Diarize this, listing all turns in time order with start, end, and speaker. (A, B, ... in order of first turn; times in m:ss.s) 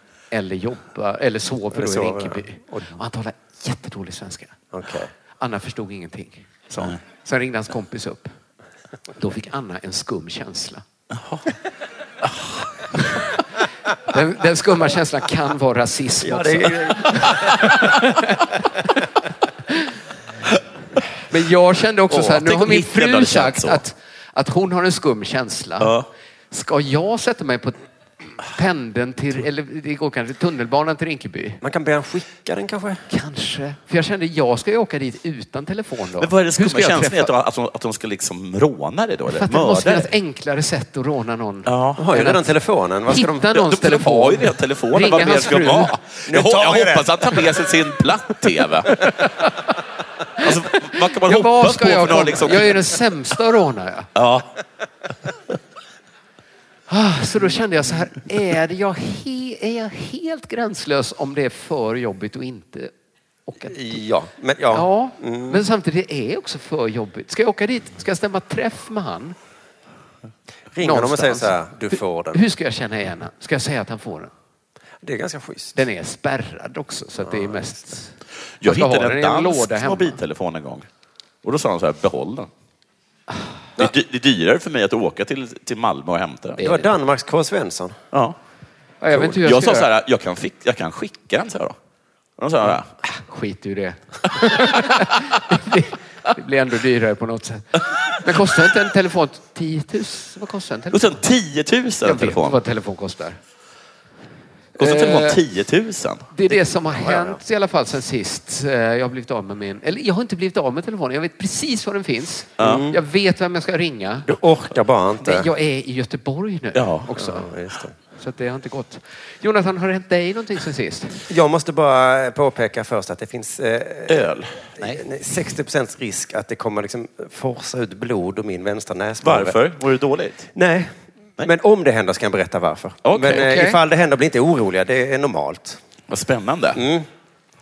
0:00.3-0:04.6 A
0:01.7-0:02.9 B
0:04.7-0:05.1 B
0:05.4-0:08.3 A
0:09.2-0:10.8 A
0:11.1-0:11.4 C
0:12.9-0:13.3 A
0:14.1-0:18.5 A
0:16.2-0:17.7 B
0:21.3-0:25.9 A
0:22.1-0:23.8 C
0:25.8-0:26.1 C
0:26.5-0:27.8 A
0:28.4-0:31.6 A
0:31.6-0:33.0 B
0:33.1-0:37.3 A
0:36.2-0:40.1 C
0:39.3-0:42.5 A
0:41.6-0:42.0 C
0:42.0-0:43.5 B
0:43.1-0:46.0 A
0:43.5-0:49.0 C
0:46.3-0:47.2 B
0:49.0-0:49.5 A
0:50.4-0:54.1 A
0:50.4-0:52.9 C
0:54.2-0:54.5 C
0:56.9-1:02.9 A
1:03.5-1:04.0 A
1:03.7-1:05.6 B
1:04.7-1:09.4 A
1:10.7-1:12.4 B
1:10.8-1:14.3 A
1:15.0-1:15.8 B
1:15.7-1:20.2 A
1:17.2-1:17.6 B
1:18.6-1:20.8 C
1:21.4-1:22.5 C
1:23.8-1:26.8 C
1:26.6-1:28.0 B
1:26.6-1:26.9 A
1:29.0-1:29.9 A
1:29.2-1:31.8 C
1:32.4-1:32.9 C
1:33.0-1:41.2 A
1:40.9-1:42.6 C
1:42.0-1:43.4 A
1:44.8-1:46.3 C
1:44.8-1:45.4 A
1:46.3-1:54.3 A
1:47.0-1:47.4 B
1:52.6-1:52.9 C
1:52.6-1:53.0 B
1:54.2-1:55.5 B
1:55.2-1:57.5 A
1:56.7-1:57.1 C
1:57.2-1:57.9 B
1:58.2-2:01.2 A
2:01.3-2:09.6 B
2:04.1-2:05.0 C
2:09.2-2:10.5 C
2:10.5-2:15.8 B
2:13.0-2:13.5 C
2:13.3-2:13.8 A
2:16.1-2:16.8 C
2:16.7-2:17.0 B